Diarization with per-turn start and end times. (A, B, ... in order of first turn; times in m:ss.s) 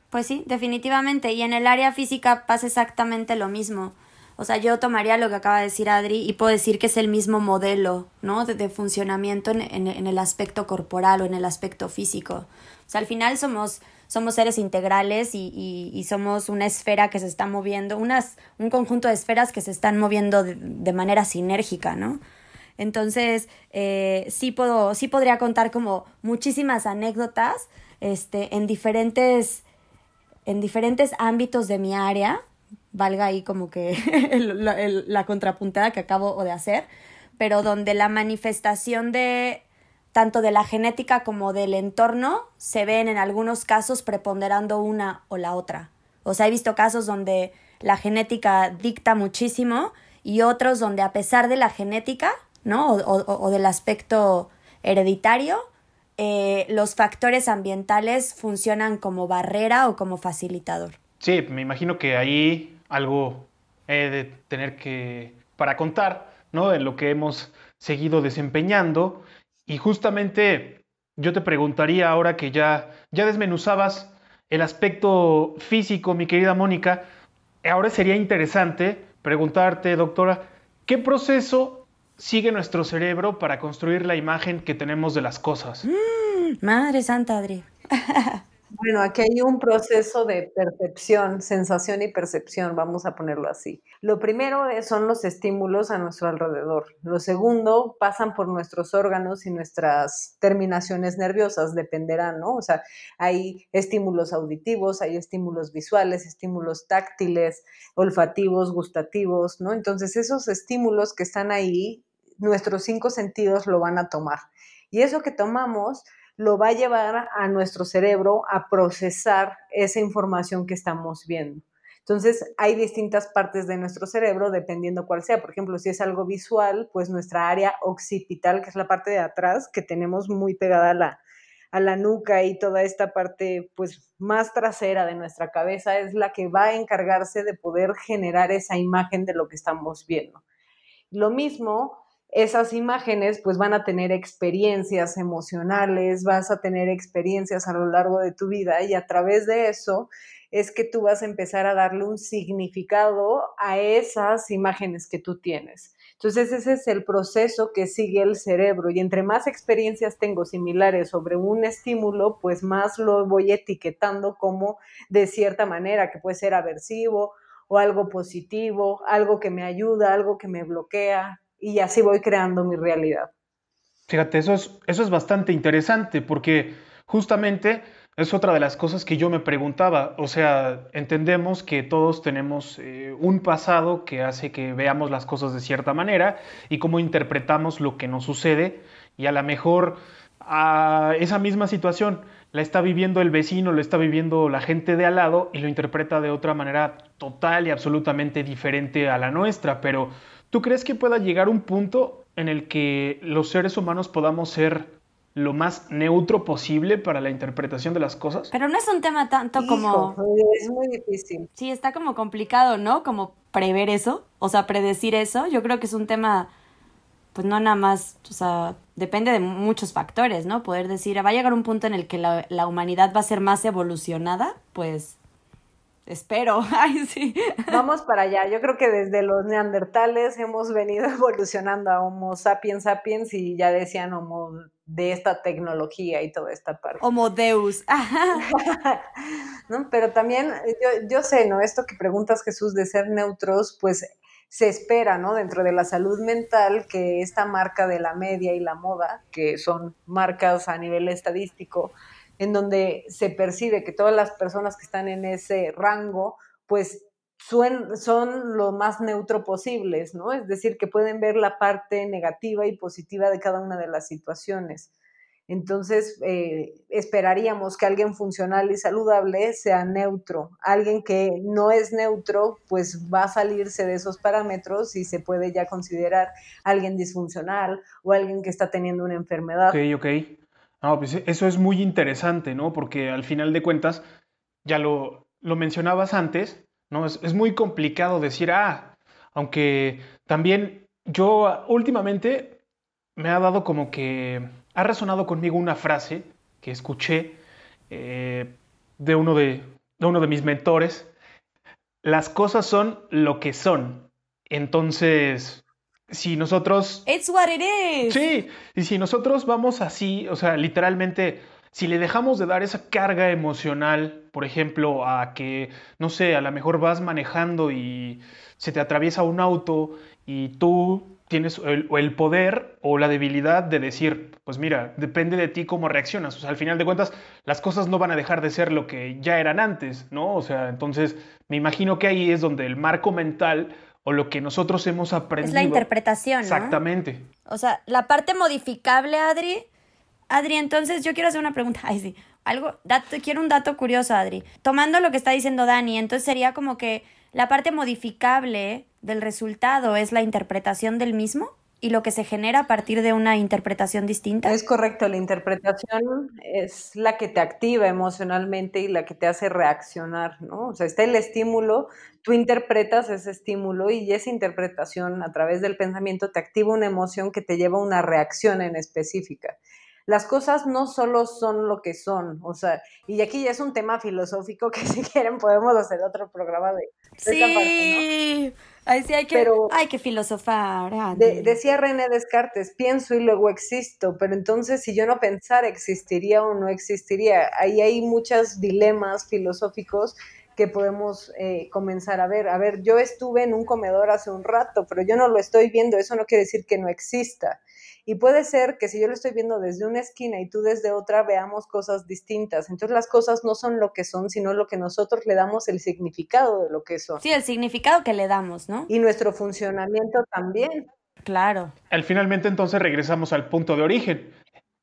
0:00.1-0:22.2 A
0:22.8-0:29.6 A
0:30.5-1:01.0 A
1:01.2-1:17.0 B
1:17.6-1:25.9 B
1:25.8-1:28.4 A
1:28.7-2:11.2 C
2:11.7-2:20.4 C
2:21.1-2:53.3 C
2:54.1-3:28.5 B
3:28.5-3:30.2 A
3:29.6-3:31.5 C
3:31.6-3:36.5 A
3:37.3-3:45.2 A
3:46.1-3:47.8 A
3:47.7-3:57.0 C
3:57.0-3:58.4 A
3:58.5-3:59.1 C
3:59.7-4:24.9 C
4:25.5-4:39.8 C
4:39.7-4:44.0 B
4:44.6-4:52.6 B
4:53.2-5:01.1 B
5:02.0-5:07.1 B
5:07.0-5:08.2 A
5:08.1-5:35.8 B
5:35.4-5:36.8 A
5:36.4-5:37.3 B
5:37.5-5:39.7 A
5:40.3-5:54.6 A
5:54.4-6:18.0 C
6:17.2-6:21.6 A
6:19.3-6:19.8 C
6:21.1-6:47.2 C
6:47.2-6:48.9 A
6:48.9-6:50.9 C
6:51.2-6:51.7 A
6:51.9-6:54.3 B